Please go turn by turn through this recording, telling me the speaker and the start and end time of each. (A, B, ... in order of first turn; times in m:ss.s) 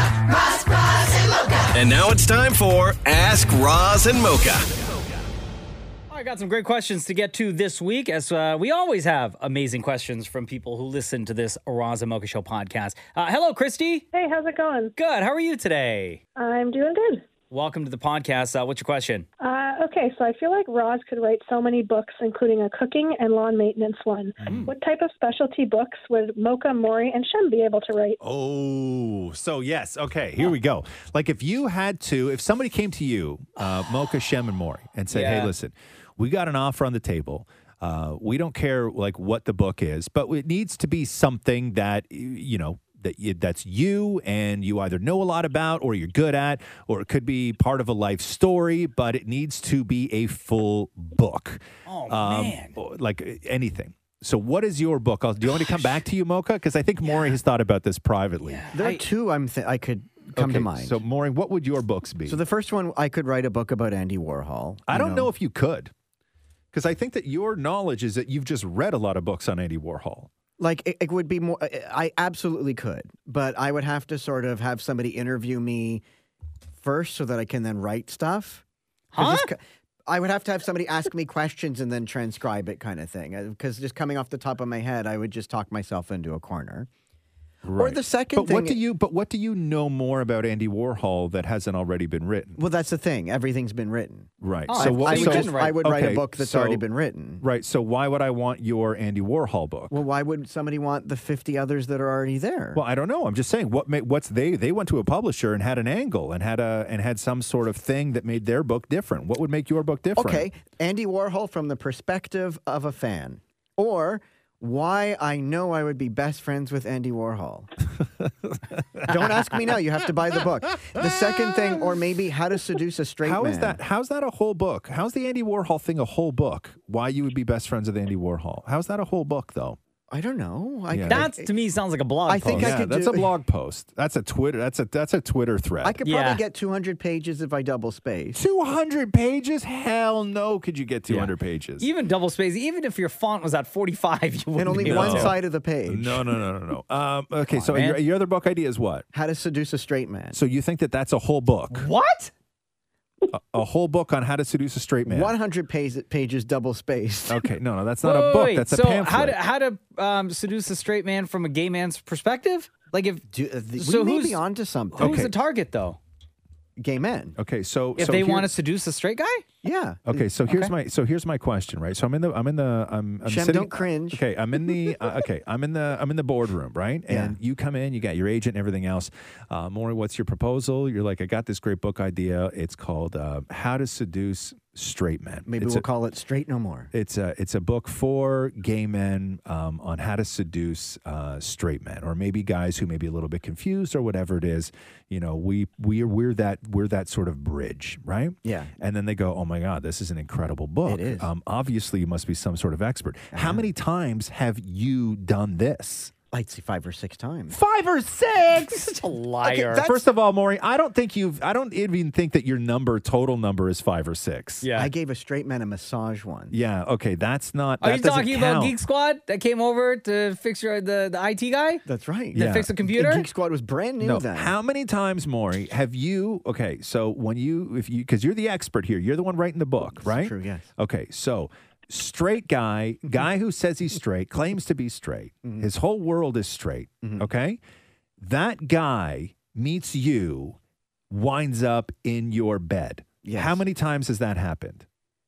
0:01.7-0:04.8 A
0:06.1-0:14.1 B
0:14.1-0:14.9 C
0:15.0-0:16.2 B
0:16.4-0:17.3 C
0:17.5-0:19.2 B
0:19.4-0:28.2 C
0:24.4-0:24.7 D
0:24.4-0:24.7 B
0:28.2-0:58.7 D
0:35.1-0:35.5 B
0:51.8-0:52.8 B
0:57.0-0:57.4 B
0:58.4-0:59.0 B
0:58.7-1:01.0 E
1:00.3-1:02.4 D
1:02.2-1:05.3 E
1:04.9-1:05.9 D
1:06.7-1:10.3 D
1:10.6-1:16.0 E
1:16.8-1:18.6 E
1:19.1-1:19.5 B
1:19.2-1:26.9 E
1:27.6-1:32.6 D
1:27.8-1:28.8 E
1:32.6-1:37.4 E
1:34.4-1:36.8 D
1:34.7-1:35.9 B
1:37.4-1:40.0 D
1:39.9-1:42.8 E
1:42.7-1:50.5 D
1:50.1-1:57.7 E
1:58.2-1:59.3 D
1:59.0-2:03.8 E
2:00.9-2:01.9 D
2:03.2-2:09.8 D
2:10.1-2:11.5 E
2:10.9-2:11.3 D
2:11.1-2:12.7 B
2:12.2-2:13.3 E
2:12.5-2:16.0 D
2:15.8-2:18.4 E
2:16.0-2:16.4 B
2:18.3-2:21.9 D
2:21.1-2:25.4 B
2:24.5-2:26.3 E
2:24.7-2:29.0 D
2:27.5-2:28.0 B
2:29.1-2:30.4 E
2:30.3-2:31.9 D
2:31.7-2:32.3 B
2:33.3-2:35.3 D
2:35.0-2:37.5 E
2:37.3-2:39.4 D
2:38.0-2:43.2 B
2:43.3-2:45.3 E
2:43.8-2:44.4 B
2:44.9-2:46.0 B
2:45.0-2:45.3 D
2:46.8-2:47.4 E
2:47.4-2:48.6 D
2:48.0-2:49.4 B
2:49.6-2:50.2 E
2:50.1-3:05.8 D
2:50.4-2:50.7 B
2:53.2-2:54.2 E
2:57.1-2:57.4 E
3:05.5-3:06.9 E
3:06.9-3:26.1 D
3:18.4-3:18.7 E
3:20.8-3:21.3 E
3:23.3-3:23.7 E
3:26.3-3:27.6 E
3:27.5-3:29.0 D
3:28.8-3:29.9 B
3:29.4-3:30.0 E
3:29.7-3:34.7 D
3:34.6-3:34.9 B
3:34.7-3:36.6 E
3:36.5-3:38.7 D
3:37.8-3:43.3 B
3:41.8-3:44.5 E
3:42.3-3:42.7 D
3:44.0-3:57.6 D
3:50.0-3:50.7 E
3:58.2-4:00.6 D
4:01.1-4:04.8 D
4:03.2-4:03.6 E